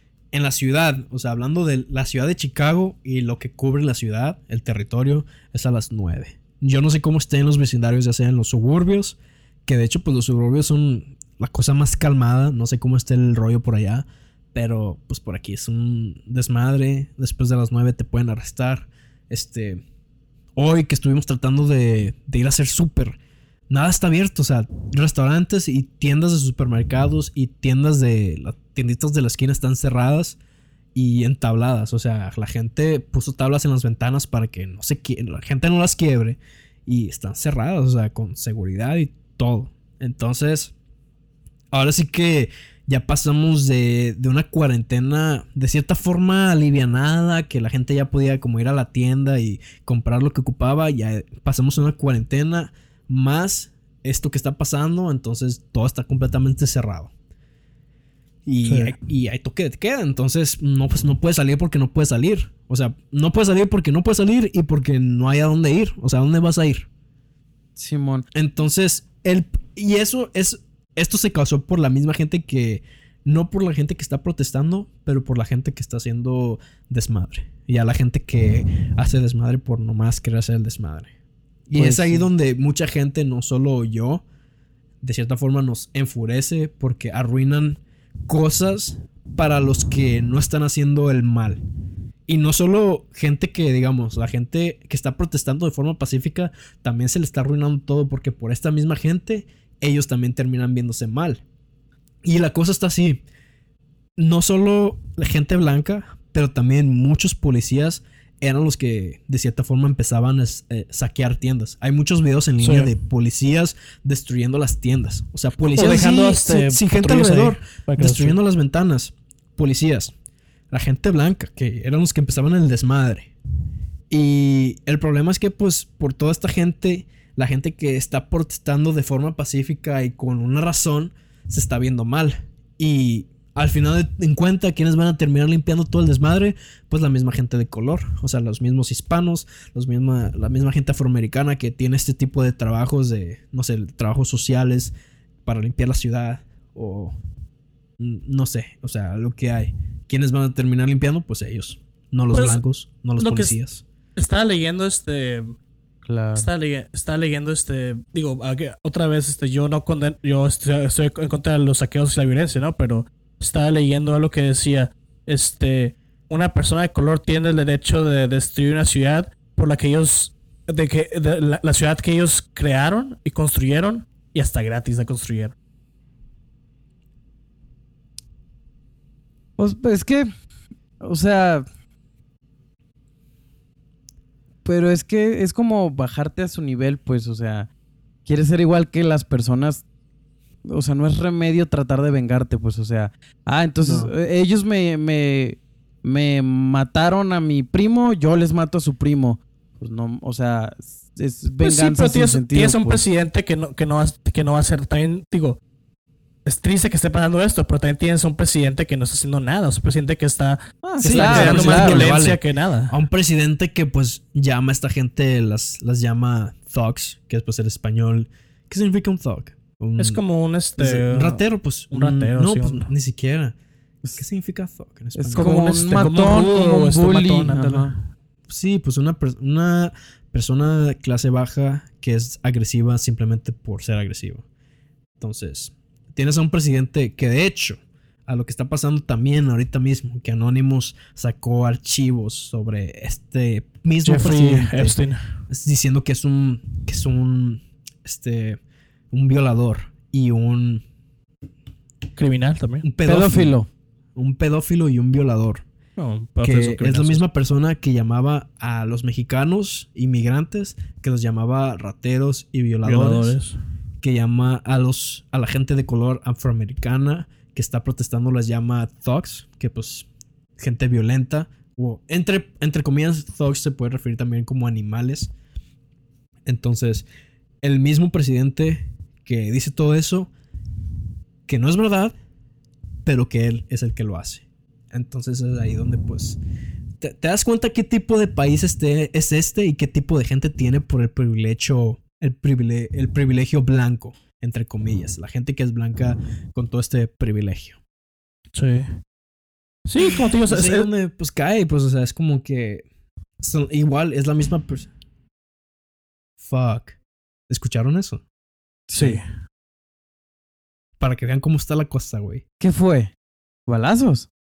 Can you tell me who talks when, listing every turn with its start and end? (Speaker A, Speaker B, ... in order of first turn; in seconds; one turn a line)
Speaker A: 0.3-19.8
Speaker A: 20.6-30.4
Speaker A: 30.9-40.7
Speaker A: 41.7-57.1
Speaker A: 58.5-66.9
Speaker B: 58.7-58.9
Speaker B: 67.8-68.2
Speaker A: 68.3-81.1
Speaker A: 81.7-84.2
Speaker B: 81.7-82.3
Speaker A: 85.0-91.6
Speaker A: 92.3-101.4
Speaker A: 102.2-103.2
Speaker A: 104.2-120.1
Speaker C: 112.6-112.9
Speaker C: 115.7-118.4
Speaker A: 120.7-123.3
Speaker A: 124.1-144.9
Speaker A: 145.4-147.2
Speaker A: 148.0-153.8
Speaker C: 152.3-152.6
Speaker C: 153.2-153.6
Speaker C: 154.2-155.5
Speaker B: 156.1-156.5
Speaker C: 156.3-175.5
Speaker B: 179.6-180.3
Speaker B: 181.0-181.7
Speaker B: 184.6-187.7
Speaker B: 188.2-189.8
Speaker B: 190.7-203.0
Speaker A: 193.8-194.1
Speaker C: 201.6-205.6
Speaker C: 206.4-212.9
Speaker B: 210.8-212.1
Speaker A: 211.0-220.2
Speaker C: 220.0-221.4
Speaker A: 220.8-223.5
Speaker C: 221.9-222.9
Speaker A: 224.2-226.1
Speaker B: 225.1-227.9
Speaker C: 225.3-228.0
Speaker A: 228.5-234.4
Speaker A: 235.2-245.0
Speaker C: 244.1-245.2
Speaker A: 245.5-248.6
Speaker A: 249.1-250.8
Speaker C: 252.2-252.8
Speaker A: 252.8-253.6
Speaker B: 253.0-253.7
Speaker A: 254.2-255.6
Speaker C: 256.0-257.2
Speaker A: 256.4-263.4
Speaker C: 262.8-263.6
Speaker A: 264.0-270.1
Speaker A: 270.6-275.3
Speaker A: 276.4-277.1
Speaker A: 277.6-280.3
Speaker A: 281.5-282.1
Speaker A: 283.0-286.4
Speaker A: 287.0-297.8
Speaker C: 298.5-298.9
Speaker C: 299.9-300.9
Speaker A: 300.0-302.9
Speaker A: 303.4-304.9
Speaker A: 306.4-306.9
Speaker A: 307.5-308.2
Speaker B: 308.9-309.2
Speaker C: 308.9-309.2
Speaker A: 311.0-312.4
Speaker B: 312.6-313.1
Speaker B: 313.7-314.3